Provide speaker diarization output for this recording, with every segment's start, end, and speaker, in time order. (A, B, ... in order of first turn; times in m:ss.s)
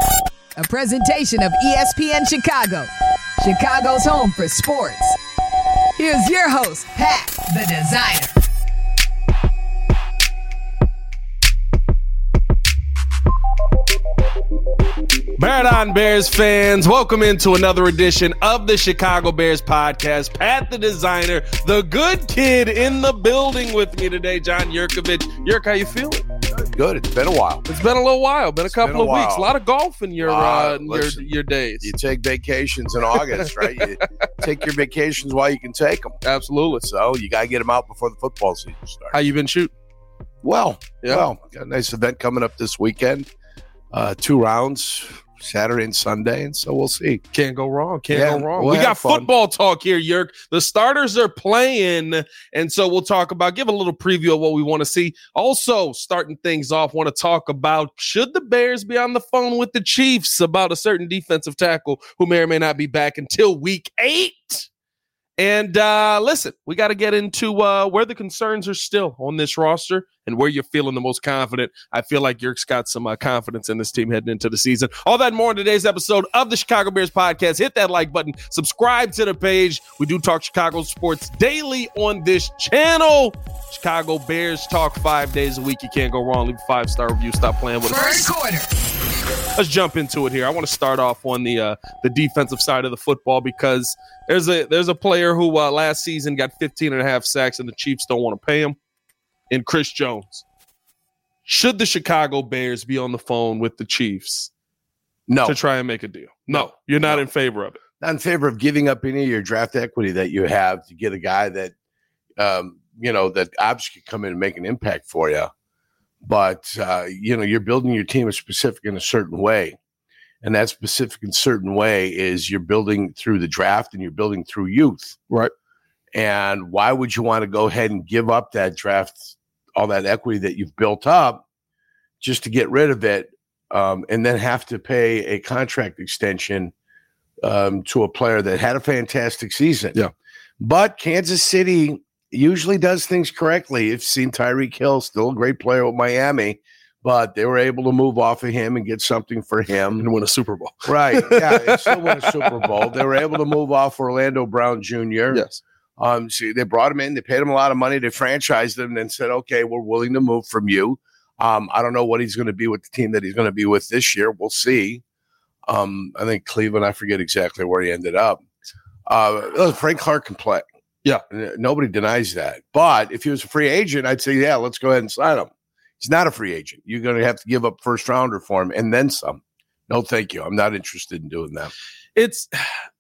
0:00.6-0:05.2 A
0:06.0-0:08.4 A
0:15.4-0:26.3 B
0:26.6-0:27.7 C
0:27.7-0:31.9 B
0:28.7-0:29.5 C
0:30.2-0:36.2 C
0:36.2-0:36.8 B
0:36.8-0:39.2 C
0:39.1-0:39.7 B
0:40.4-0:43.3 C
0:43.9-0:47.2 C
0:47.3-1:04.7 B
0:48.1-0:49.3 C
1:05.4-1:28.3 B
1:27.9-1:28.7 A
1:29.6-1:38.8 B
1:39.5-1:40.4 B
1:41.5-1:44.5 B
1:45.3-1:45.6 C
1:45.4-1:47.8 B
1:46.5-1:47.2 C
1:48.0-1:51.7 C
1:52.4-1:55.5 C
1:56.2-1:59.8 C
2:00.4-2:05.2 C
2:06.1-2:11.4 C
2:12.2-2:16.7 C
2:17.4-2:20.0 C
2:20.6-2:30.1 C
2:30.0-2:32.4 B
2:30.9-2:35.4 C
2:35.3-2:35.6 B
2:36.0-2:45.0 C
2:45.7-2:48.4 C
2:49.1-2:50.6 C
2:51.3-3:01.7 C
3:02.2-3:02.5 B